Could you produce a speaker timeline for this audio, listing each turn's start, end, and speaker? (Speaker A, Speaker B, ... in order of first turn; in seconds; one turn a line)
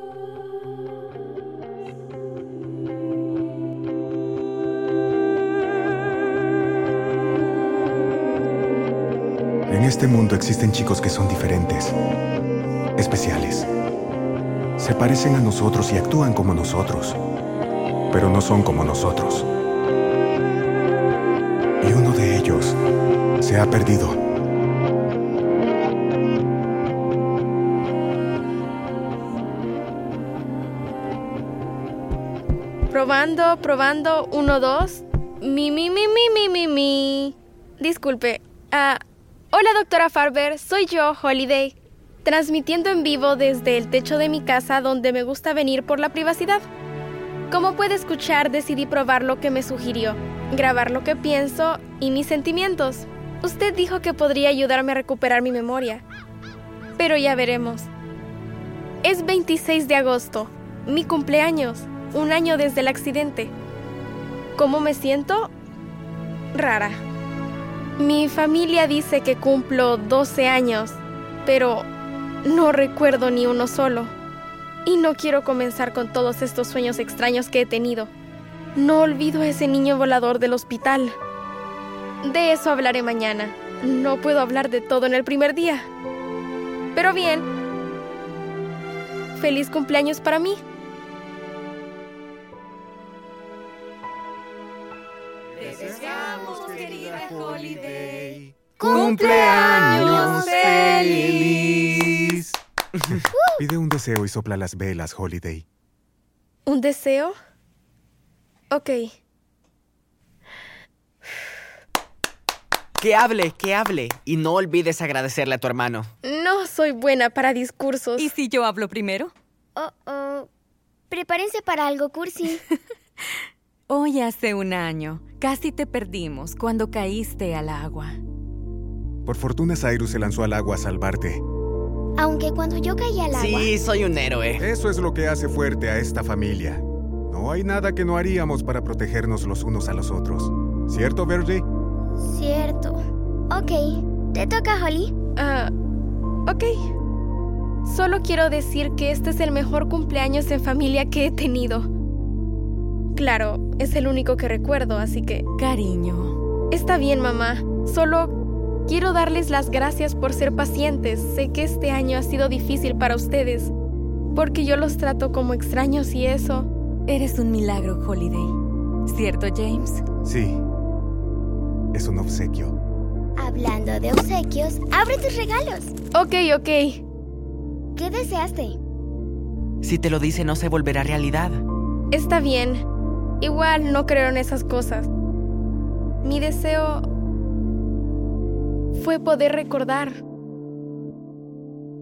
Speaker A: 9.7-11.9
Speaker A: 13.0-13.7
Speaker A: 14.8-17.2
Speaker A: 18.1-19.5
Speaker A: 21.8-22.8
Speaker A: 23.4-24.2
Speaker B: 32.9-39.0
Speaker B: 39.5-46.6
Speaker B: 47.5-56.0
Speaker B: 57.0-57.9
Speaker B: 59.0-63.5
Speaker B: 64.6-65.5
Speaker B: 66.5-67.0
Speaker B: 68.0-71.9
Speaker B: 72.5-74.1
Speaker B: 74.9-78.1
Speaker B: 78.8-81.2
Speaker B: 82.2-85.9
Speaker B: 87.0-87.5
Speaker B: 89.4-90.6
Speaker C: 95.6-102.1
Speaker A: 95.7-105.7
Speaker D: 98.9-100.9
Speaker B: 100.1-101.0
Speaker B: 106.7-107.3
Speaker B: 108.7-109.1
Speaker E: 113.0-116.1
Speaker B: 116.2-118.3
Speaker C: 118.2-119.3
Speaker D: 119.8-120.5
Speaker D: 121.1-122.6
Speaker C: 123.9-128.2
Speaker A: 129.2-131.4
Speaker D: 132.2-133.7
Speaker E: 133.3-134.7
Speaker A: 134.6-141.7
Speaker D: 142.2-145.2
Speaker B: 145.4-145.7
Speaker B: 146.5-146.7
Speaker B: 147.9-151.9
Speaker B: 153.2-155.5
Speaker C: 155.6-156.4
Speaker B: 156.7-158.3
Speaker B: 158.9-163.7
Speaker B: 164.3-166.7
Speaker C: 167.1-168.5
Speaker C: 169.1-170.0
Speaker A: 170.2-170.6
Speaker A: 171.9-172.8
Speaker D: 173.4-175.9
Speaker B: 176.1-177.0
Speaker D: 177.9-178.8
Speaker E: 179.8-181.7
Speaker B: 182.1-182.9
Speaker B: 183.4-185.1
Speaker B: 186.2-187.0
Speaker B: 188.9-190.2